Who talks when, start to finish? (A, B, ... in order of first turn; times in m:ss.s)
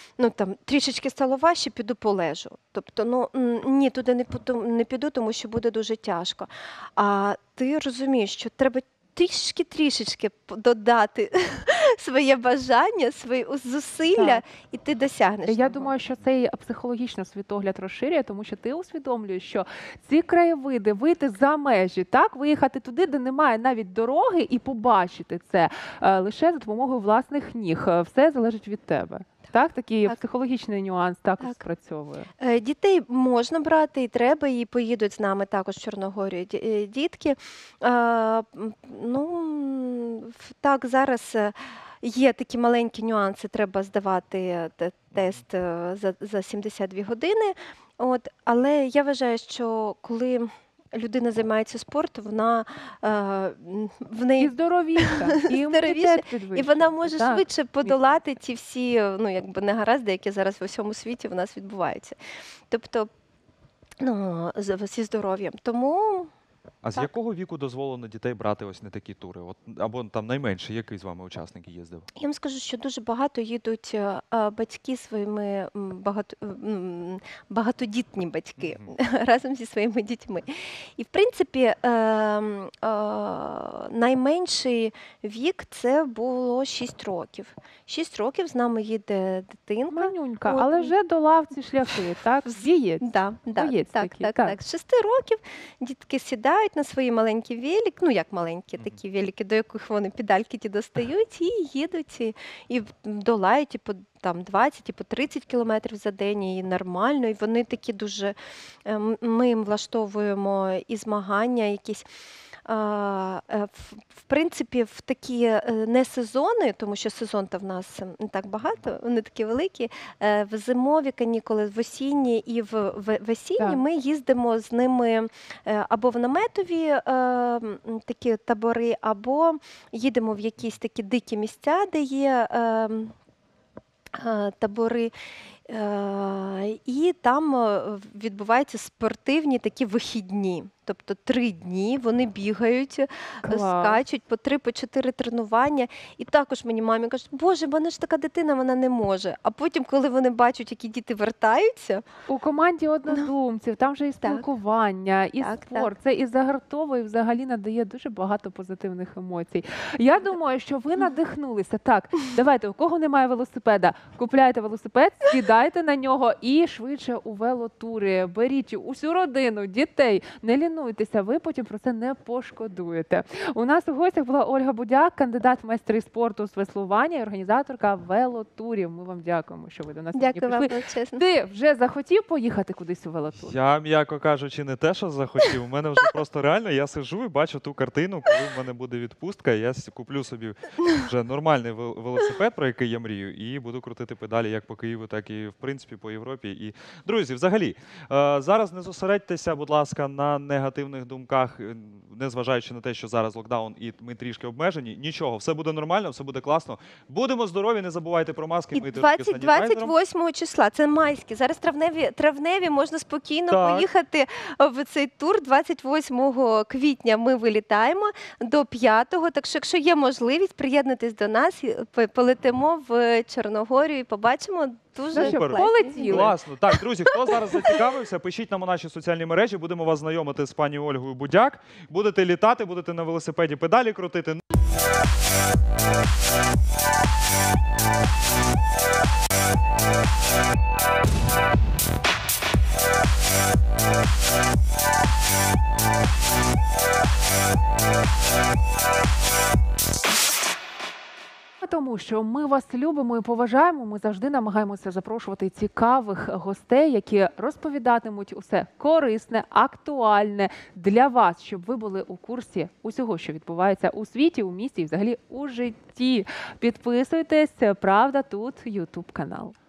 0:00.2-0:15.9 A
0:14.1-0:14.4 B
0:15.5-0:32.3 B
0:32.4-1:02.2 A
0:54.4-0:58.1 B
1:02.7-1:03.1 A
1:04.0-1:06.3 A
1:06.8-1:12.1 C
1:12.1-1:30.9 A
1:18.6-1:18.9 C
1:29.9-1:33.0 B
1:32.5-1:52.1 A
1:33.5-1:34.6 B
1:52.6-2:13.1 A
2:14.1-2:15.1 A
2:15.7-2:32.1 A
2:23.4-2:24.0 B
2:32.3-3:03.5 B
2:34.2-2:34.5 A
2:35.4-2:35.9 A
3:00.1-3:01.2 A
3:03.4-3:29.9 C
3:28.7-3:46.3 A
3:33.5-3:33.9 C
3:45.1-3:46.3 B
3:45.2-3:54.4 C
3:47.1-3:47.8 A
4:11.6-4:29.5 B